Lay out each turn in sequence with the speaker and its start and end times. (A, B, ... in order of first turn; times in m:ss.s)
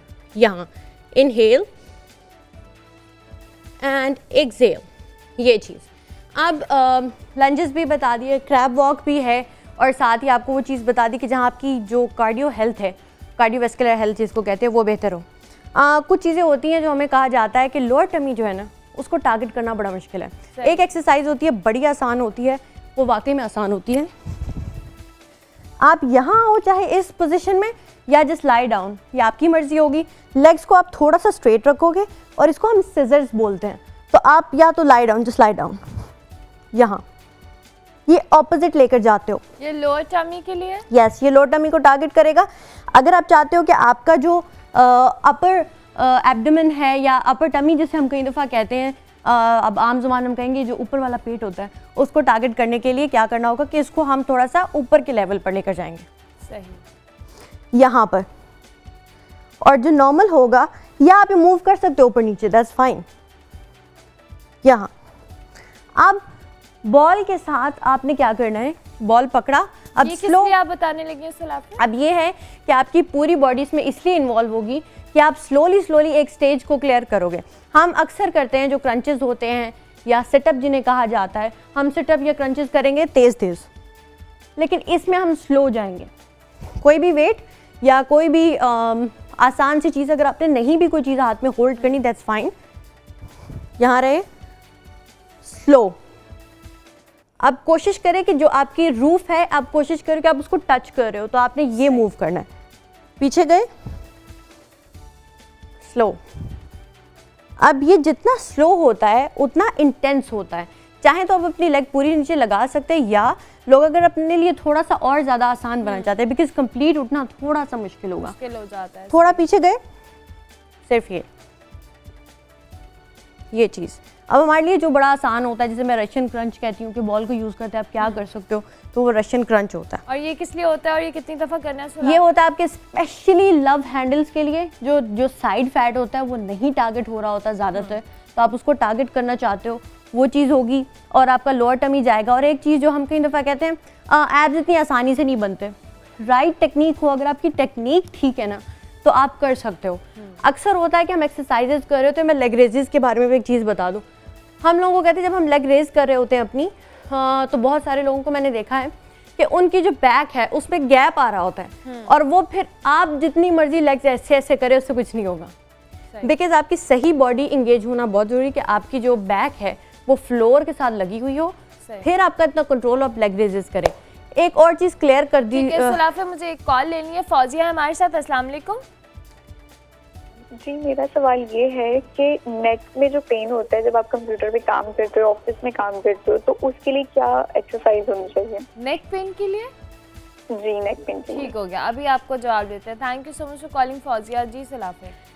0:00.4-0:01.7 A
0:03.8-0:04.8 A
0:05.4-0:24.1 A
0:20.6-0:20.8 B
0:25.8-0:35.8 A
0:36.7-0:37.0 A
0:38.1-0:39.4 A
0:39.6-0:40.9 B
0:40.9-0:56.1 A
0:56.5-0:56.8 B
0:57.7-0:58.3 A
0:59.6-1:03.0 A
1:04.6-1:04.9 A
1:06.0-1:06.2 A
1:06.8-1:10.6 A
1:10.0-1:11.8 B
1:11.8-1:23.7 A
1:24.6-1:26.1 A
1:26.8-1:32.5 A
1:33.8-1:34.3 A
1:35.4-1:36.0 A
1:37.4-1:42.5 A
1:43.2-1:43.7 A
1:45.8-1:46.2 A
1:47.6-1:58.4 A
1:55.8-1:56.1 B
1:58.2-1:59.4 B
1:59.1-1:59.8 A
2:00.9-2:01.3 A
2:03.5-2:10.0 A
2:10.1-2:12.2 B
2:12.0-2:34.0 A
2:34.6-2:45.5 A
2:41.9-2:42.1 B
2:46.2-2:56.0 A
2:55.5-2:58.8 B
3:00.5-3:08.7 C
3:08.8-3:09.7 B
3:10.5-3:11.5 C
3:11.3-3:15.1 B